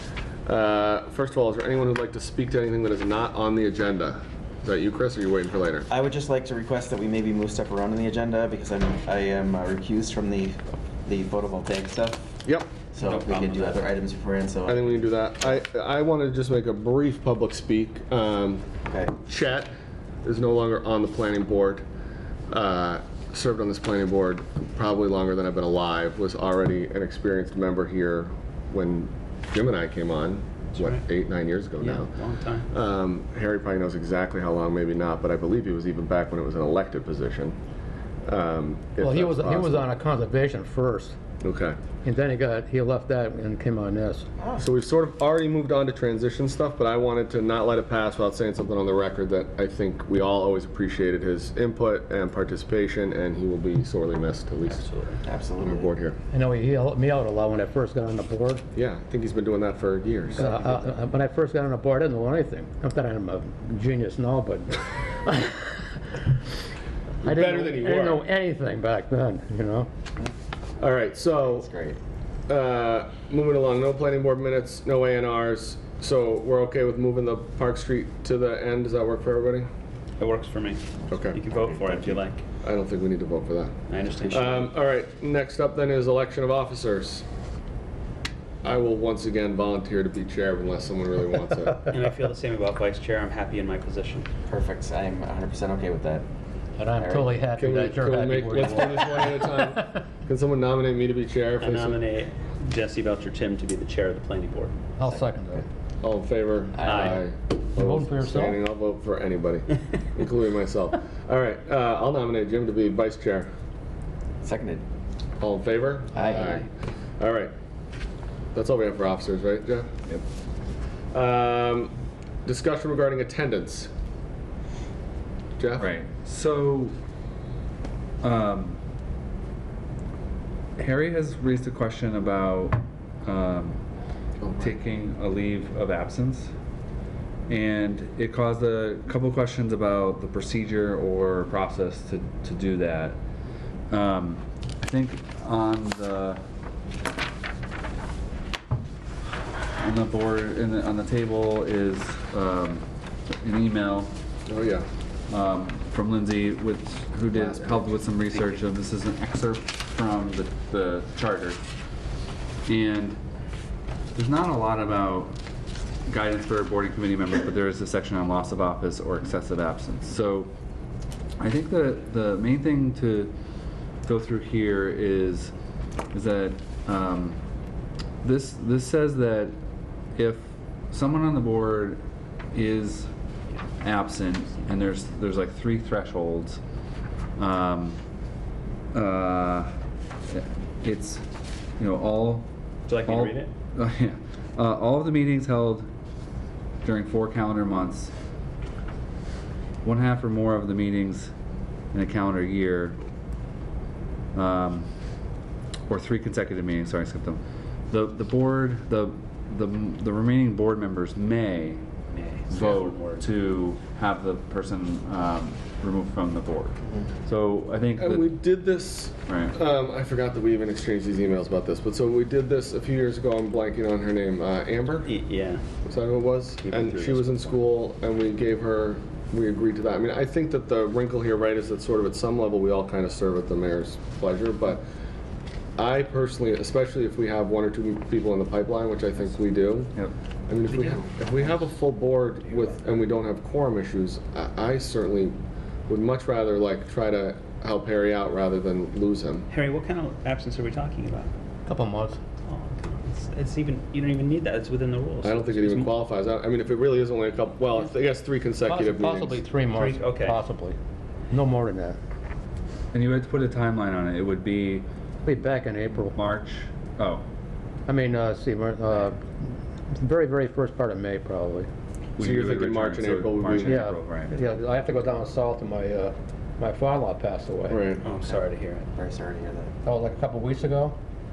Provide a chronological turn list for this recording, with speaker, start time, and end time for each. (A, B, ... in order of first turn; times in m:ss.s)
0:00.5-0:05.9 A
0:05.9-0:12.3 B
0:12.4-0:12.7 A
0:12.9-0:15.1 B
0:13.0-0:13.8 C
0:14.7-0:18.7 A
0:18.9-0:19.1 B
0:19.2-0:19.7 A
0:20.2-0:21.8 A
0:22.5-0:32.1 A
0:30.8-0:31.0 C
0:31.8-0:32.7 C
0:32.7-0:37.6 A
0:38.3-0:39.9 A
0:39.0-0:41.2 D
0:41.4-0:41.8 A
0:42.0-0:44.3 D
0:44.4-0:44.7 B
0:44.6-0:54.8 A
0:54.7-0:55.2 C
0:55.2-0:55.9 B
0:55.6-0:56.2 A
0:56.3-0:58.6 D
0:58.7-1:00.7 A
1:00.3-1:05.8 D
1:07.2-1:08.2 A
1:07.2-1:09.9 D
1:10.8-1:11.7 A
1:11.4-1:12.0 B
1:12.5-1:19.7 A
1:20.2-1:22.4 C
1:21.1-1:22.2 B
1:21.1-1:21.4 A
1:22.6-1:23.7 A
1:23.9-1:24.7 C
1:24.3-1:27.2 A
1:28.6-1:31.9 A
1:31.9-1:34.3 C
1:34.5-1:36.3 B
1:36.8-1:39.9 D
1:36.9-1:37.4 B
1:37.6-1:42.0 A
1:41.6-1:44.8 C
1:45.0-1:45.7 D
1:45.1-1:45.4 B
1:46.0-1:53.5 A
1:46.7-1:47.2 B
1:46.8-1:47.2 C
1:47.7-1:48.6 D
1:54.4-1:54.8 B
1:55.4-1:56.7 A
1:56.1-1:56.6 B
1:57.2-1:57.5 A
1:58.5-1:59.9 A
2:01.1-2:01.9 A
2:02.4-2:03.9 A
2:05.6-2:05.9 A
2:05.8-2:07.0 E
2:08.2-2:08.8 E
2:10.8-2:13.8 E
2:14.4-2:14.8 A
2:14.6-2:16.5 E
2:17.5-2:23.2 E
2:23.9-2:26.4 E
2:29.8-2:32.8 E
2:33.4-2:34.1 E
2:34.5-2:34.9 A
2:35.3-2:41.6 E
2:37.3-2:38.0 A
2:42.7-2:43.2 E
2:44.2-2:45.4 E
2:46.1-2:50.5 E
2:51.4-2:53.3 E
2:54.0-2:55.5 E
2:56.1-2:57.4 E
2:58.2-2:59.5 E
3:00.2-3:03.1 E
3:03.8-3:06.6 E
3:07.4-3:08.0 E
3:08.9-3:09.7 E
3:10.3-3:11.2 E
3:11.8-3:12.5 E
3:12.9-3:13.5 C
3:13.0-3:15.9 E
3:16.8-3:18.1 E
3:19.8-3:21.3 E
3:21.9-3:23.0 E
3:24.4-3:24.9 E
3:25.9-3:31.8 E
3:32.1-3:33.3 C
3:32.5-3:38.3 E
3:38.0-3:45.1 A
3:39.3-3:39.6 E
3:45.0-3:45.6 C
3:45.8-3:54.8 A
3:46.6-3:47.6 C
3:55.8-3:59.9 A
4:00.5-4:05.4 A
4:05.9-4:09.5 A
4:09.5-4:11.3 C
4:11.7-4:12.2 D
4:12.4-4:15.9 C
4:15.2-4:19.4 A
4:18.7-4:20.8 D
4:19.7-4:20.4 C
4:21.3-4:22.0 D
4:22.9-4:24.9 E
4:25.2-4:26.2 D
4:26.1-4:27.2 E
4:27.9-4:29.2 D
4:30.0-4:31.7 D
4:32.2-4:34.4 E
4:32.2-4:33.8 A
4:33.6-4:37.9 D
4:37.7-4:38.0 A
4:38.0-4:38.9 C
4:38.1-4:39.8 B
4:39.8-4:41.0 D